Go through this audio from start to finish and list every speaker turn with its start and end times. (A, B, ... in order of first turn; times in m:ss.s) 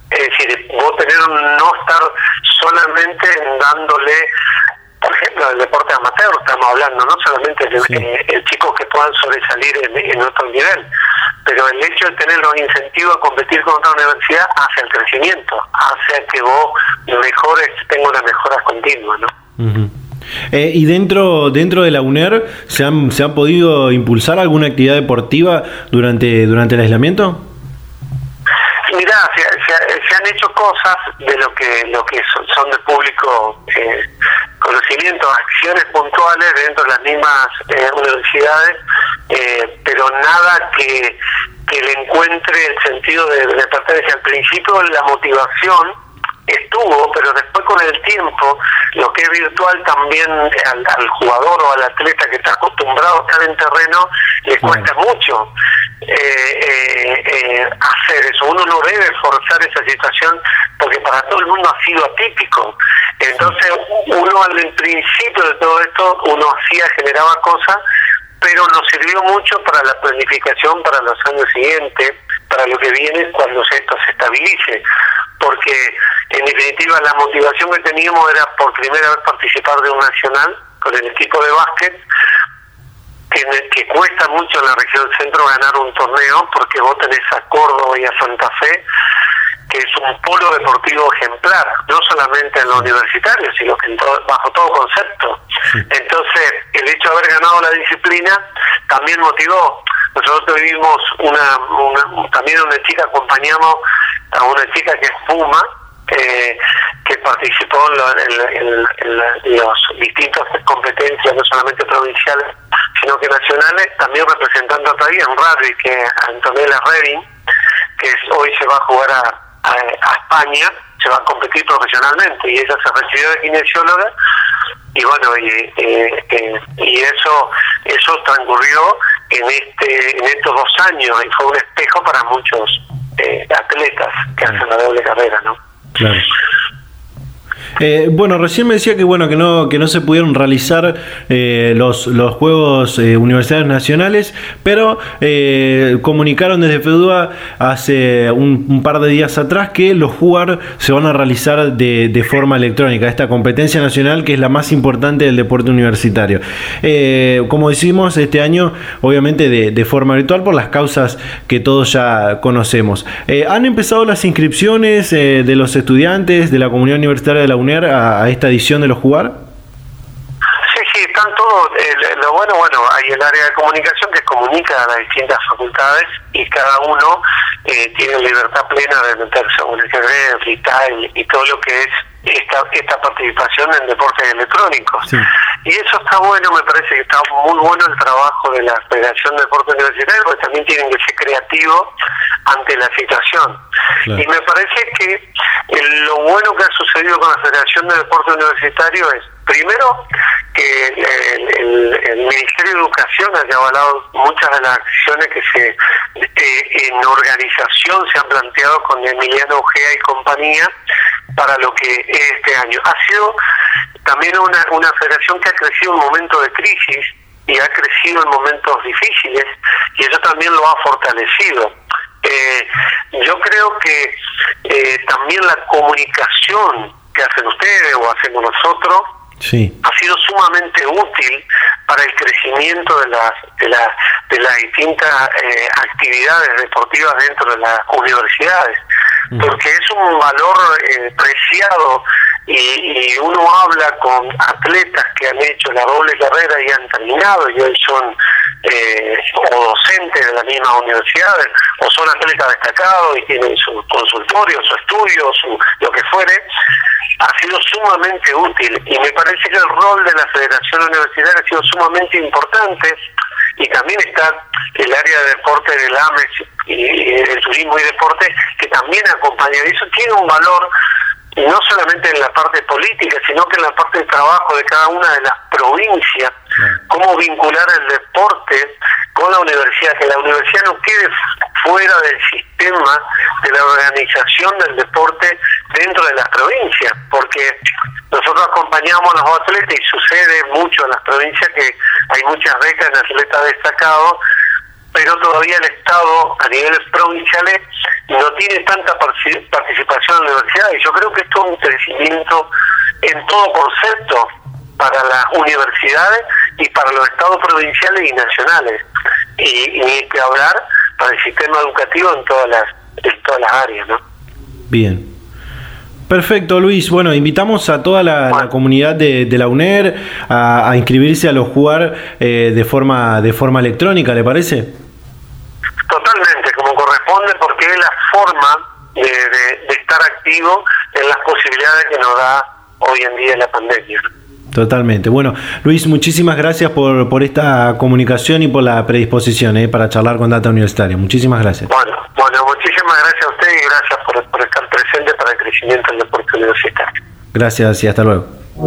0:00.1-0:04.3 A
0:05.0-0:10.8 A
0:11.4-0:19.3 A
0:19.6-0:19.9 B
0:20.5-0:27.4 B
0:28.9-0:34.0 A
0:34.6-0:38.8 A
0:39.3-0:45.9 A
0:46.5-0:55.5 A
0:56.0-1:07.8 A
1:08.4-1:14.8 A
1:15.4-1:22.0 A
1:23.3-1:28.8 A
1:29.7-1:43.8 A
1:44.3-1:57.2 A
1:58.0-2:04.1 A
2:04.9-2:15.6 A
2:16.0-2:16.3 B
2:17.8-2:49.4 B
2:50.7-3:05.1 A
3:05.6-3:11.9 A
3:12.4-3:13.6 A
3:14.1-3:20.0 A
3:20.5-3:30.7 A
3:31.3-3:33.4 A
3:34.0-3:44.1 A
3:44.6-3:49.0 A
3:49.4-3:49.7 B
3:49.8-3:58.8 A
3:59.3-3:59.6 B
3:59.4-4:16.4 A
4:17.2-4:23.0 A
4:23.6-4:30.7 A
4:31.4-4:36.3 A
4:36.9-4:47.5 A
4:48.1-4:54.2 A
4:54.9-5:02.5 A
5:03.0-5:04.3 A
5:04.8-5:08.8 A
5:09.4-5:14.0 A
5:14.7-5:15.1 B
5:16.1-5:24.8 B
5:25.9-5:34.1 A
5:34.5-5:41.7 B
5:41.7-5:46.9 A
5:47.3-5:48.3 B